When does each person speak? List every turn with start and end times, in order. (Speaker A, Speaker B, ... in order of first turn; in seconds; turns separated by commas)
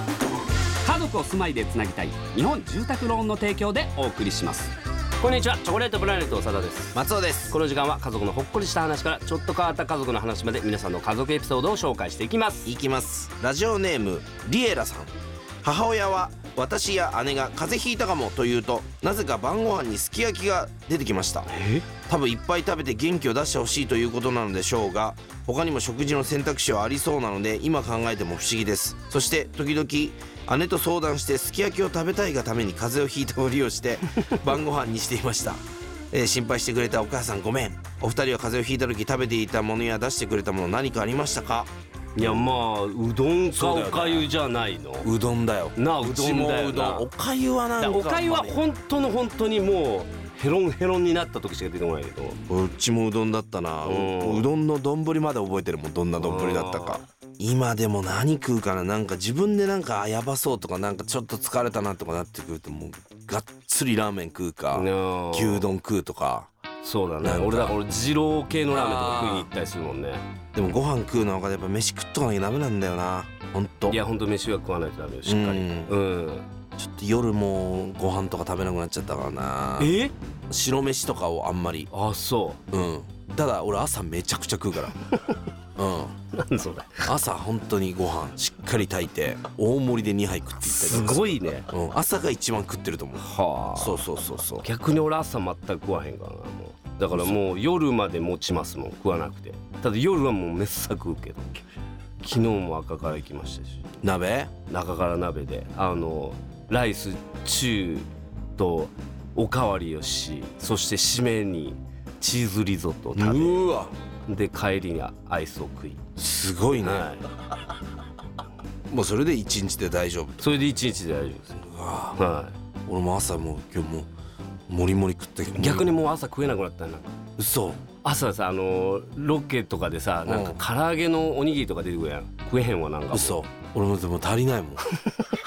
Speaker A: 0.8-12.7, Speaker B: 6.9-7.5, Speaker B: 12.6-42.5, Speaker A: 21.5-21.9, Speaker A: 42.1-45.1, Speaker B: 43.5-44.3, Speaker B: 45.0-48.6, Speaker A: 45.8-47.1, Speaker A: 47.8-52.4, Speaker B: 52.5-66.5, Speaker A: 53.8-54.5, Speaker A: 56.2-57.0, Speaker A: 64.7-65.7, Speaker A: 66.8-70.2, Speaker B: 67.2-67.8, Speaker B: 68.7-69.5, Speaker B: 70.5-74.0, Speaker A: 73.9-76.5, Speaker B: 75.2-75.9, Speaker B: 76.8-81.9, Speaker A: 79.8-80.1, Speaker A: 81.9-82.6, Speaker B: 82.7-85.0, Speaker B: 85.8-86.1, Speaker A: 86.3-87.1, Speaker B: 87.0-93.2, Speaker A: 90.6-91.7, Speaker A: 93.2-94.0, Speaker B: 93.8-94.7, Speaker A: 94.6-101.6, Speaker A: 102.2-103.8, Speaker B: 104.0-104.5, Speaker A: 104.7-116.0, Speaker B: 113.2-113.9, Speaker B: 116.2-117.1, Speaker A: 116.8-117.3, Speaker B: 118.9-120.5, Speaker A: 120.4-121.6, Speaker B: 121.6-122.2, Speaker A: 122.2-122.5, Speaker B: 122.8-124.1, Speaker B: 124.7-126.0, Speaker A: 125.5-127.2, Speaker B: 127.4-127.8, Speaker A: 128.0-133.4, Speaker B: 130.2-130.6, Speaker B: 133.1-134.8